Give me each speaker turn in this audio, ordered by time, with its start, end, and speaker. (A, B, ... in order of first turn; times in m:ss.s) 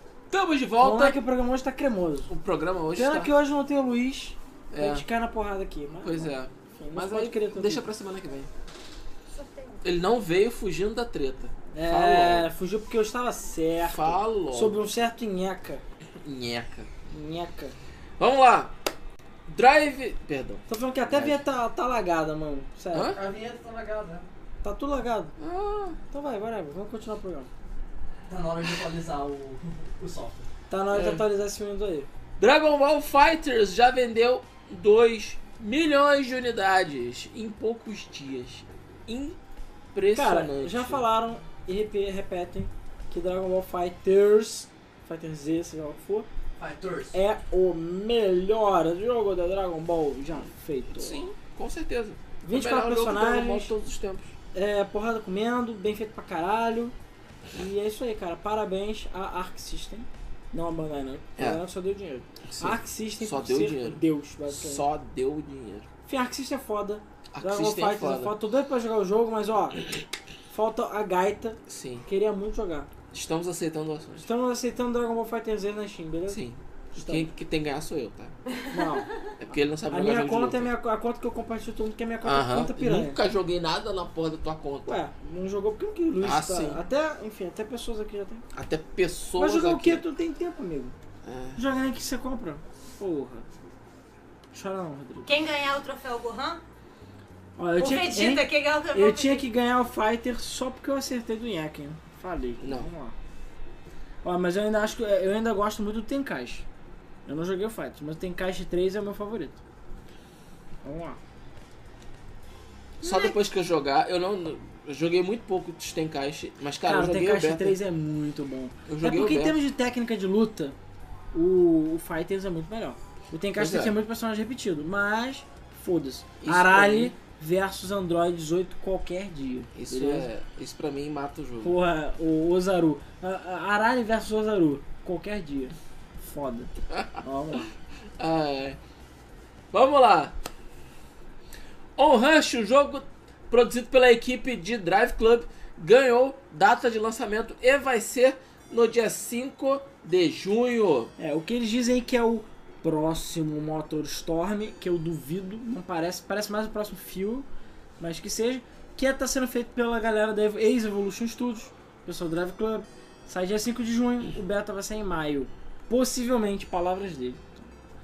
0:00.3-0:01.2 A
0:00.8-0:02.3 B
0:02.3-0:03.3 A
0:03.0-0:07.8 B
0:04.7-0:05.0 A
0:06.0-0:08.5 A
0:09.3-0:09.8 C
0:09.8-0:12.5 A
0:11.7-0:15.8 B
0:13.8-0:14.8 A
0:16.2-0:16.9 A
0:17.1-0:17.8 B
0:18.2-0:18.7 A
0:19.5-0:21.4 A
0:20.7-0:23.2 B
0:22.9-0:23.2 A
0:23.1-0:24.3 D
0:24.6-0:25.4 B
0:25.4-0:26.0 A
0:26.1-0:27.5 B
0:28.3-0:30.5 D
0:30.7-0:32.1 B
0:30.9-0:31.2 A
0:32.4-0:39.4 A
0:39.9-0:41.0 A
0:40.1-0:46.3 B
0:46.6-0:47.2 D
0:47.1-0:51.3 B
0:50.9-0:54.3 A
0:52.4-0:53.8 B
0:54.5-0:57.0 B
0:57.5-1:04.9 B
1:01.4-1:01.6 A
1:02.4-1:05.9 A
1:06.1-1:09.8 B
1:07.3-1:08.4 A
1:10.5-1:12.9 B
1:11.7-1:12.1 A
1:13.1-1:14.3 A
1:14.2-1:16.4 B
1:16.3-1:18.4 A
1:17.0-1:17.3 B
1:18.7-1:19.1 B
1:19.4-1:20.7 A
1:19.9-1:23.2 B
1:22.2-1:25.0 A
1:24.9-1:28.4 B
1:26.2-1:26.8 A
1:28.5-1:30.0 A
1:29.4-1:31.0 B
1:31.2-1:31.6 A
1:31.6-1:33.5 B
1:34.5-1:35.3 B
1:35.3-1:36.6 C
1:37.6-1:43.2 B
1:37.8-1:39.5 C
1:42.6-1:42.9 A
1:44.2-1:46.7 B
1:47.3-1:49.6 B
1:50.8-1:51.2 B
1:53.0-1:57.8 A
1:56.9-2:00.8 B
1:58.9-1:59.6 A
2:01.3-2:10.3 B
2:03.6-2:04.0 A
2:06.4-2:07.2 A
2:09.7-2:11.8 A
2:11.6-2:17.7 B
2:16.9-2:17.2 A
2:18.2-2:18.8 A
2:19.7-2:20.4 A
2:22.0-2:31.1 A
2:31.2-2:37.5 B
2:38.0-2:47.7 B